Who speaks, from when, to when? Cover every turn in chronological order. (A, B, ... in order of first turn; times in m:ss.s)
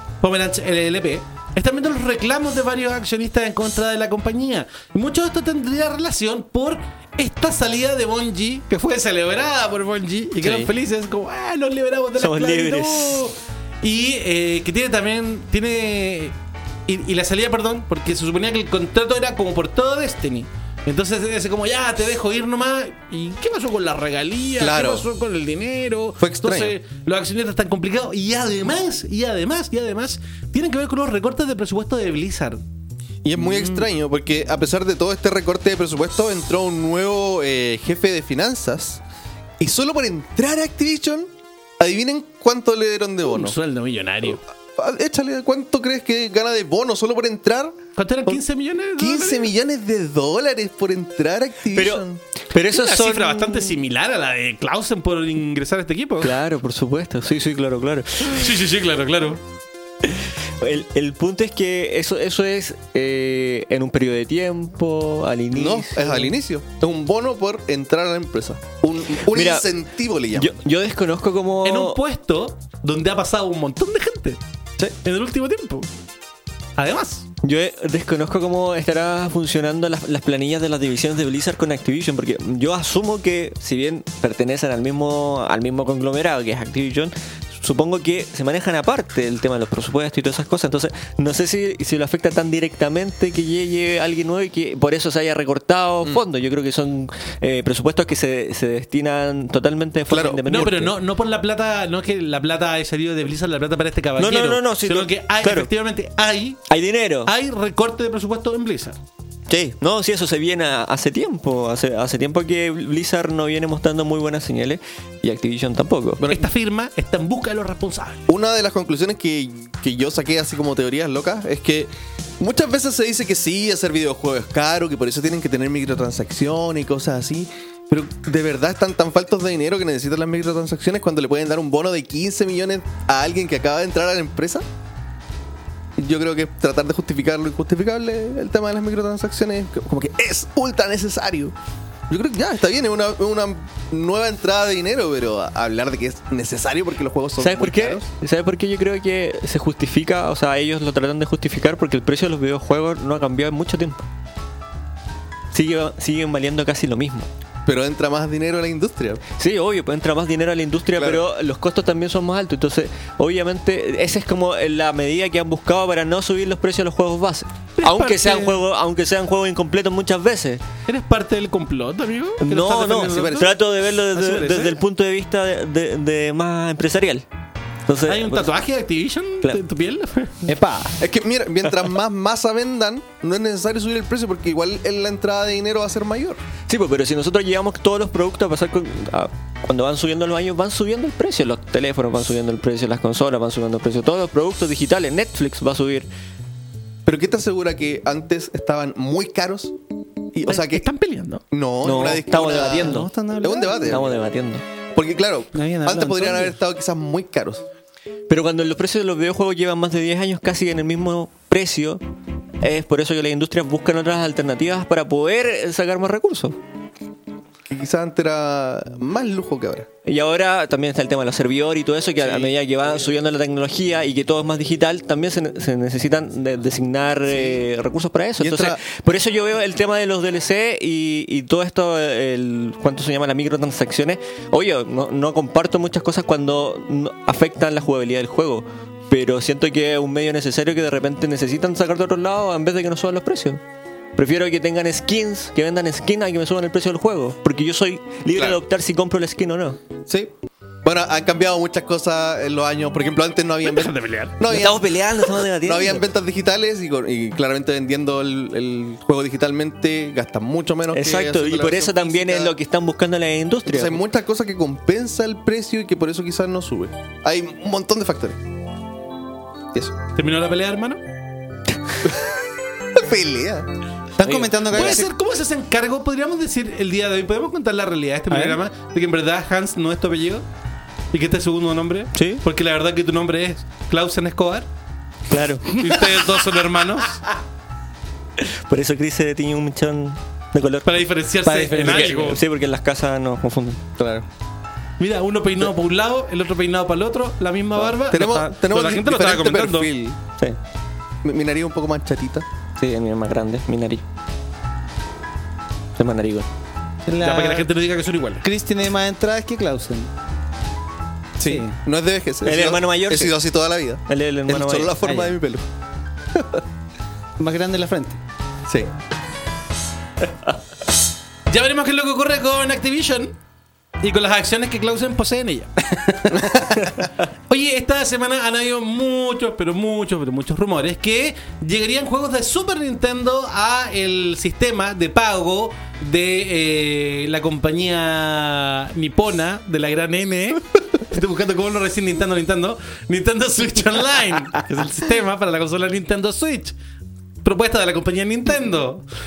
0:00.2-0:16.3 A
0:12.2-0:13.2 B
0:16.9-0:32.6 A
0:24.6-0:25.1 C
0:26.2-0:26.8 C
0:33.2-0:39.0 C
0:39.6-0:43.6 C
0:43.2-0:44.4 A
0:44.2-0:48.4 C
0:48.0-0:49.5 A
0:49.0-0:52.2 C
0:51.7-0:53.8 B
0:52.5-0:56.3 A
0:56.2-0:58.5 B
0:58.2-0:59.4 A
1:00.0-1:06.3 B
1:05.5-1:10.6 C
1:09.2-1:09.7 B
1:10.3-1:12.0 B
1:11.6-1:14.4 A
1:15.0-1:15.9 A
1:16.8-1:17.2 A
1:17.4-1:40.9 B
1:40.1-1:40.8 C
1:40.5-1:46.6 A
1:44.2-1:45.7 B
1:46.7-1:47.3 B
1:47.2-1:49.0 A
1:49.5-1:56.2 B
1:56.2-1:56.5 C
1:56.3-1:58.2 A
1:58.3-2:14.6 C
2:16.0-2:21.5 C
2:22.1-2:28.1 C
2:27.4-2:34.0 B
2:35.5-2:37.3 B
2:37.6-2:39.2 C
2:39.4-2:50.6 B
2:41.0-2:41.2 C
2:47.8-2:48.6 A
2:50.9-2:53.5 A
2:52.4-2:57.2 B
2:53.0-2:53.5 C
2:54.1-2:54.8 A
2:57.9-2:58.5 B
2:58.1-3:00.3 A
3:00.4-3:01.0 D
3:01.0-3:06.4 C
3:06.7-3:16.1 B
3:17.0-3:19.8 C
3:20.3-3:20.9 C
3:20.4-3:21.4 A
3:21.5-3:24.1 C
3:21.8-3:23.1 B
3:22.4-3:23.9 D
3:23.9-3:24.6 B
3:24.9-3:27.6 C
3:25.5-3:26.5 D
3:28.3-3:32.0 B
3:32.6-3:36.6 B
3:37.7-3:39.9 C
3:40.0-4:03.6 B
3:42.2-3:42.5 C
3:48.4-3:48.8 C
4:04.2-4:09.8 B
4:08.3-4:08.6 C
4:10.0-4:15.0 C
4:13.6-4:14.4 A
4:14.4-4:16.0 B
4:15.6-4:22.5 C
4:20.9-4:24.0 B
4:23.6-4:28.4 C
4:30.1-4:31.0 A
4:32.9-4:33.7 C
4:34.2-4:35.1 D
4:34.2-4:35.0 B
4:34.7-4:40.4 A
4:38.3-4:38.6 D
4:41.1-4:44.7 A
4:42.1-4:42.4 B
4:45.3-4:45.9 B
4:45.7-4:47.2 A
4:48.4-4:51.1 B
4:50.8-4:52.4 A
4:51.4-4:52.4 D
4:51.7-4:53.8 B
4:54.0-4:54.2 C
4:55.0-4:59.9 A
4:57.8-5:00.2 C
5:01.2-5:02.4 C
5:02.8-5:04.0 B
5:06.0-5:06.5 B
5:07.1-5:07.7 D
5:07.2-5:08.5 A
5:08.4-5:10.1 D
5:11.4-5:15.6 C
5:11.4-5:11.7 D
5:12.4-5:13.4 B
5:14.1-5:15.0 B
5:15.0-5:15.3 D
5:16.3-5:16.6 C
5:17.4-5:18.2 D
5:21.5-5:23.3 A
5:24.0-5:26.4 A
5:26.3-5:26.8 C
5:27.5-5:46.7 A
5:47.4-5:49.0 A